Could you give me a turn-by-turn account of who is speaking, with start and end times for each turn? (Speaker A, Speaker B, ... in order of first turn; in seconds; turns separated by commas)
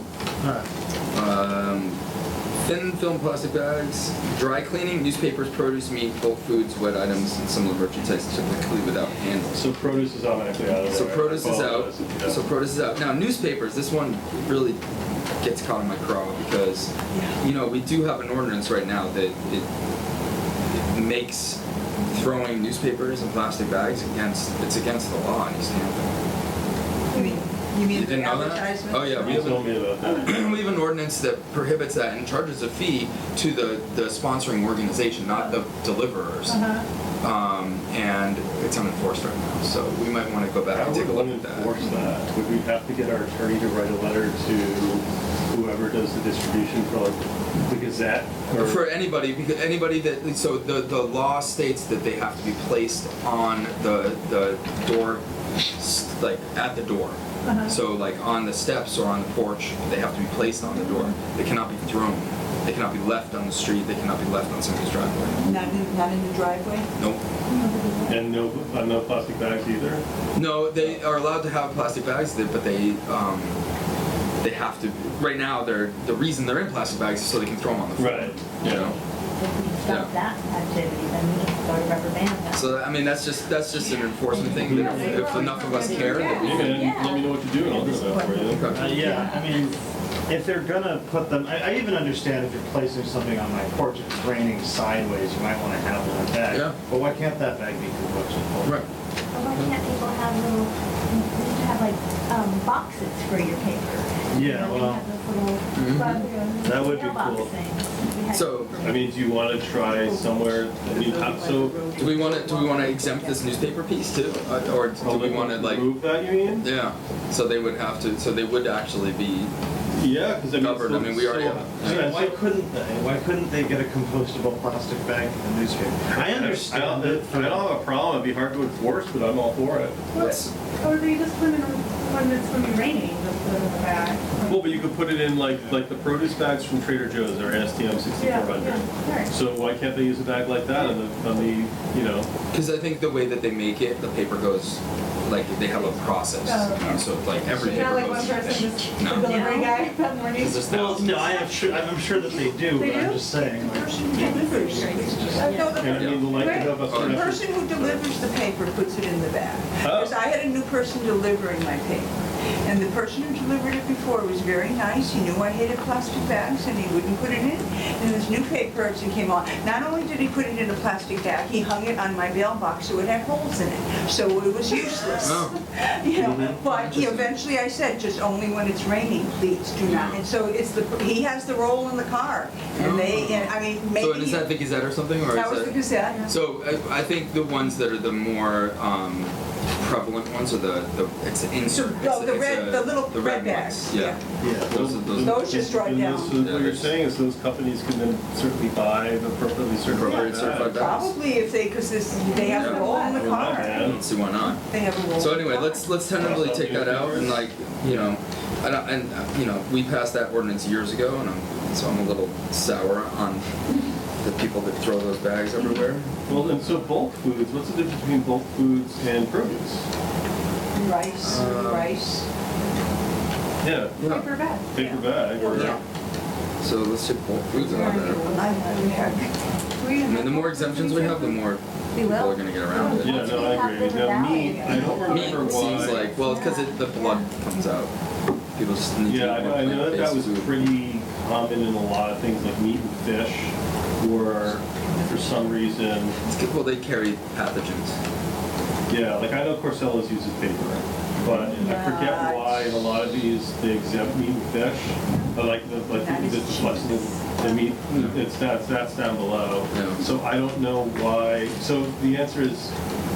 Speaker A: 0.4-0.7, Speaker B: 1.1-2.0, Speaker B: 2.7-9.6, Speaker C: 9.6-12.4, Speaker B: 10.9-14.8, Speaker B: 15.4-19.7, Speaker D: 17.1-17.4, Speaker B: 20.9-26.2, Speaker D: 27.1-29.4, Speaker E: 27.1-27.4, Speaker B: 27.9-36.6, Speaker C: 29.1-30.7, Speaker E: 36.5-36.9, Speaker B: 37.2-41.7, Speaker C: 40.7-48.8, Speaker B: 48.5-55.2, Speaker B: 55.8-65.4, Speaker E: 57.5-57.7, Speaker D: 65.4-66.9, Speaker B: 67.0-67.2, Speaker E: 67.5-68.4, Speaker C: 68.1-70.0, Speaker B: 70.3-73.6, Speaker B: 74.4-79.0, Speaker C: 78.0-79.0, Speaker F: 78.6-82.8, Speaker B: 79.8-80.1, Speaker B: 82.5-86.9, Speaker F: 84.3-87.3, Speaker C: 84.5-85.6, Speaker E: 84.6-89.5, Speaker D: 85.0-85.3, Speaker D: 86.3-86.5, Speaker C: 86.3-88.8, Speaker F: 88.0-89.4, Speaker B: 88.5-88.9, Speaker A: 88.7-98.9, Speaker B: 96.5-96.8, Speaker F: 99.3-108.8, Speaker A: 104.3-105.0, Speaker B: 105.8-106.2, Speaker E: 105.9-106.8, Speaker A: 106.6-107.5, Speaker B: 108.3-108.8, Speaker E: 108.5-108.8, Speaker C: 108.7-111.9, Speaker D: 109.9-113.0, Speaker B: 112.0-116.0, Speaker C: 115.0-116.7, Speaker B: 116.6-119.5, Speaker C: 119.9-122.4, Speaker B: 120.5-122.2, Speaker A: 121.8-127.8, Speaker C: 126.1-130.1, Speaker E: 130.1-134.9, Speaker B: 130.2-130.5, Speaker C: 134.5-142.3, Speaker E: 138.2-139.3, Speaker B: 142.5-149.3, Speaker E: 146.4-147.0, Speaker E: 147.5-150.7, Speaker F: 149.1-149.9, Speaker B: 150.4-151.5, Speaker A: 150.7-155.5, Speaker E: 152.8-153.2, Speaker D: 153.3-184.5, Speaker E: 154.5-156.9, Speaker F: 155.3-155.7, Speaker C: 155.7-157.4, Speaker B: 155.9-158.0, Speaker C: 159.8-160.2, Speaker B: 175.2-175.6, Speaker C: 176.2-176.5, Speaker B: 176.2-177.3, Speaker B: 179.8-180.2, Speaker B: 182.8-195.4, Speaker D: 185.3-186.3, Speaker D: 191.7-194.2, Speaker C: 194.4-200.8, Speaker D: 195.2-196.4, Speaker B: 196.3-196.9, Speaker B: 199.9-201.2, Speaker D: 200.0-203.9, Speaker E: 202.1-203.9, Speaker B: 202.5-202.8, Speaker C: 203.0-204.0, Speaker B: 203.7-204.6, Speaker D: 204.5-205.8, Speaker B: 205.2-213.5, Speaker C: 206.2-208.0, Speaker B: 214.2-216.2, Speaker C: 216.3-219.8, Speaker D: 220.8-222.3, Speaker B: 221.2-221.9, Speaker C: 223.6-224.0, Speaker B: 224.0-224.3, Speaker E: 224.0-224.7, Speaker C: 224.7-225.8, Speaker D: 224.8-225.8, Speaker B: 225.4-225.8, Speaker B: 226.6-228.2, Speaker D: 227.6-229.3, Speaker E: 227.7-229.2, Speaker F: 228.5-229.1, Speaker E: 229.8-231.4, Speaker B: 230.0-233.4, Speaker E: 232.7-235.4, Speaker C: 233.0-236.1, Speaker F: 233.0-235.4, Speaker B: 234.8-237.9, Speaker E: 236.1-237.2, Speaker F: 236.3-237.2, Speaker B: 238.6-240.6, Speaker C: 239.1-246.2, Speaker B: 246.2-247.9, Speaker C: 248.9-262.7, Speaker B: 251.2-251.5, Speaker D: 251.6-252.9, Speaker D: 255.1-255.3, Speaker D: 255.9-257.3, Speaker B: 257.9-258.2, Speaker B: 259.7-260.0